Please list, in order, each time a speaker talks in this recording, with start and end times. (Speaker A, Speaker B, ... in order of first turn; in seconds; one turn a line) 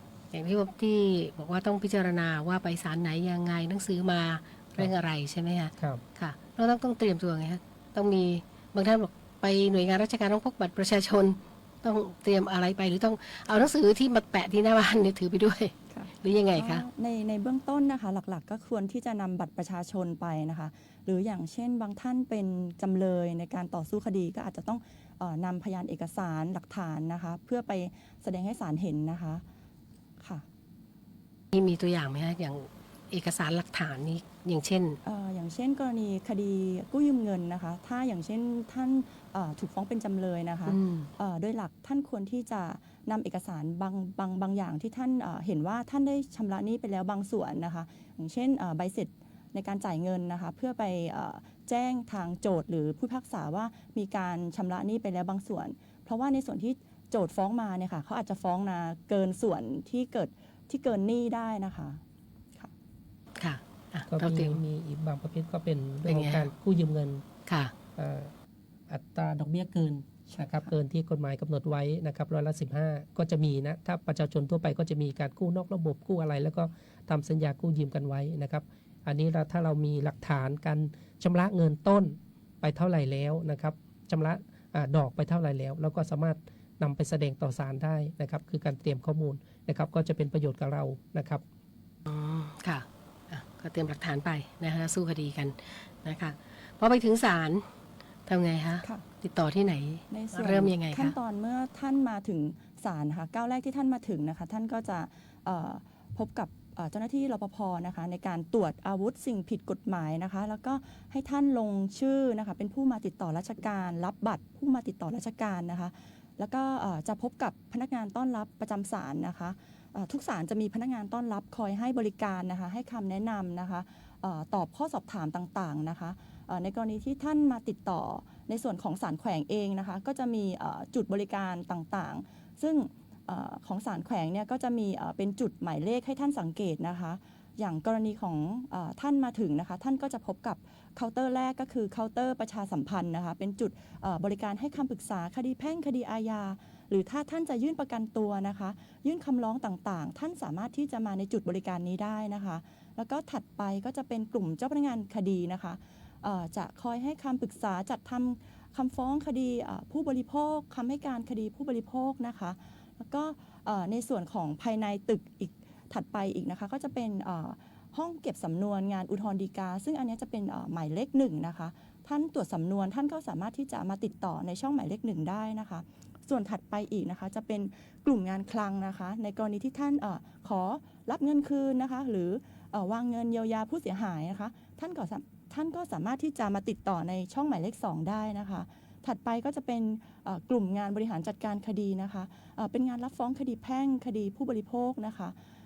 Speaker A: 0.3-16.8
Speaker B: 5.8-6.0
Speaker C: 15.9-29.4
Speaker C: 30.2-30.4
Speaker A: 31.5-35.0
Speaker C: 35.0-62.0
Speaker A: 40.7-41.1
Speaker A: 63.4-64.6
Speaker B: 64.1-67.2
Speaker A: 66.0-66.5
Speaker A: 67.5-67.7
Speaker B: 68.0-68.3
Speaker B: 68.9-91.4
Speaker A: 92.1-97.7
Speaker A: 98.3-101.1
Speaker C: 100.1-195.3